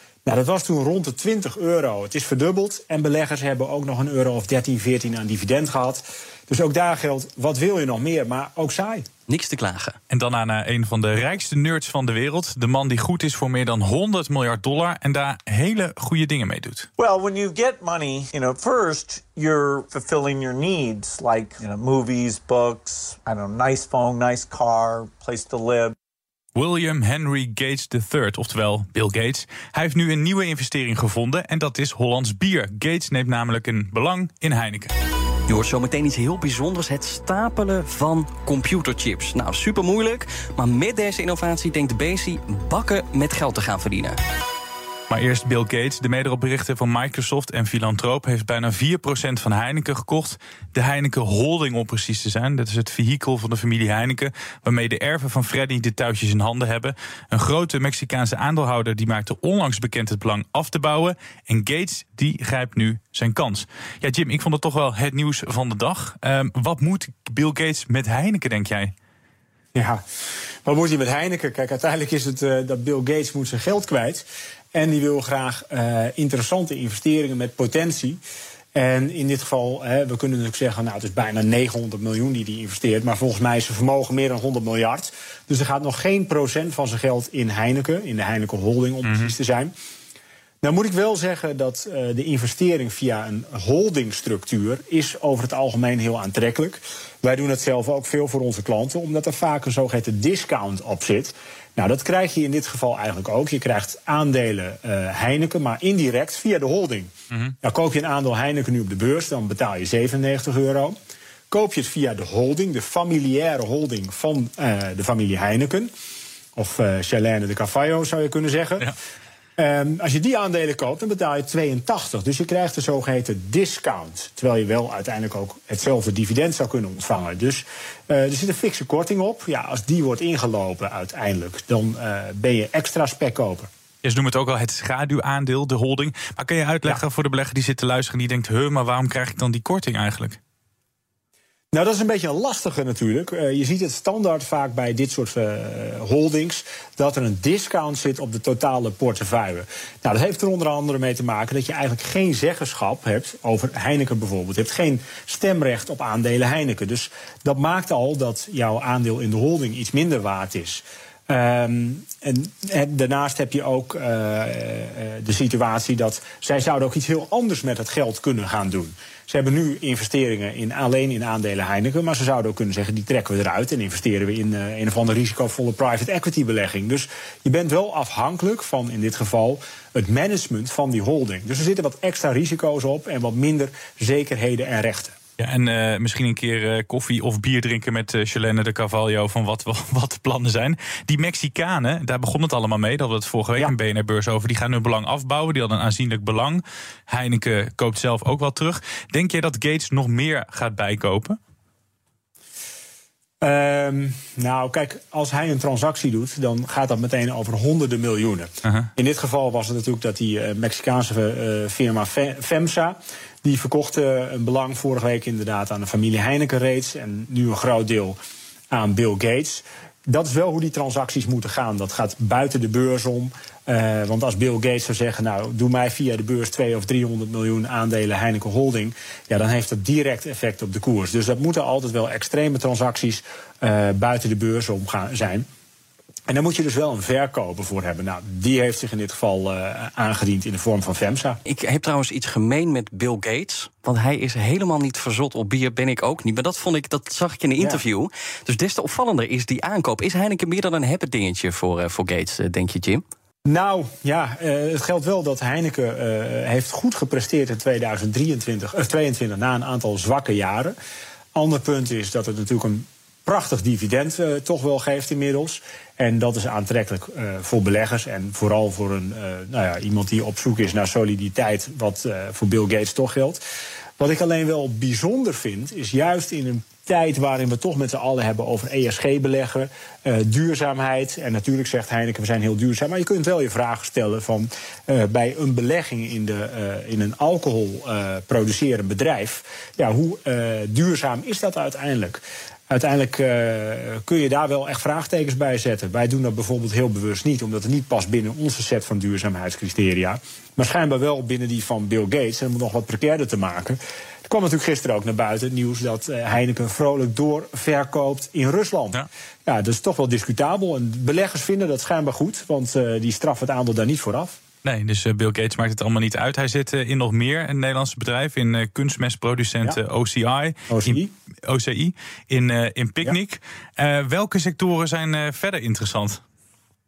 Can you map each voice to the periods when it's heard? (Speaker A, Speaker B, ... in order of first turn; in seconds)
Speaker A: 0.2-9.1, 69.7-70.0, 70.6-78.2, 78.7-89.7, 90.6-110.9, 111.5-115.9, 116.5-118.9, 119.6-133.7, 141.7-185.2, 203.4-218.2, 218.7-235.5, 236.3-241.4, 253.4-260.7, 261.3-273.4, 274.0-314.4, 320.7-321.1
Speaker B: 9.3-10.0, 35.5-44.2, 241.4-253.0
Speaker C: 10.1-16.9, 26.5-34.9, 45.1-68.9, 89.0-89.3, 134.0-140.4, 185.4-201.4, 314.6-326.2
Speaker D: 17.0-25.9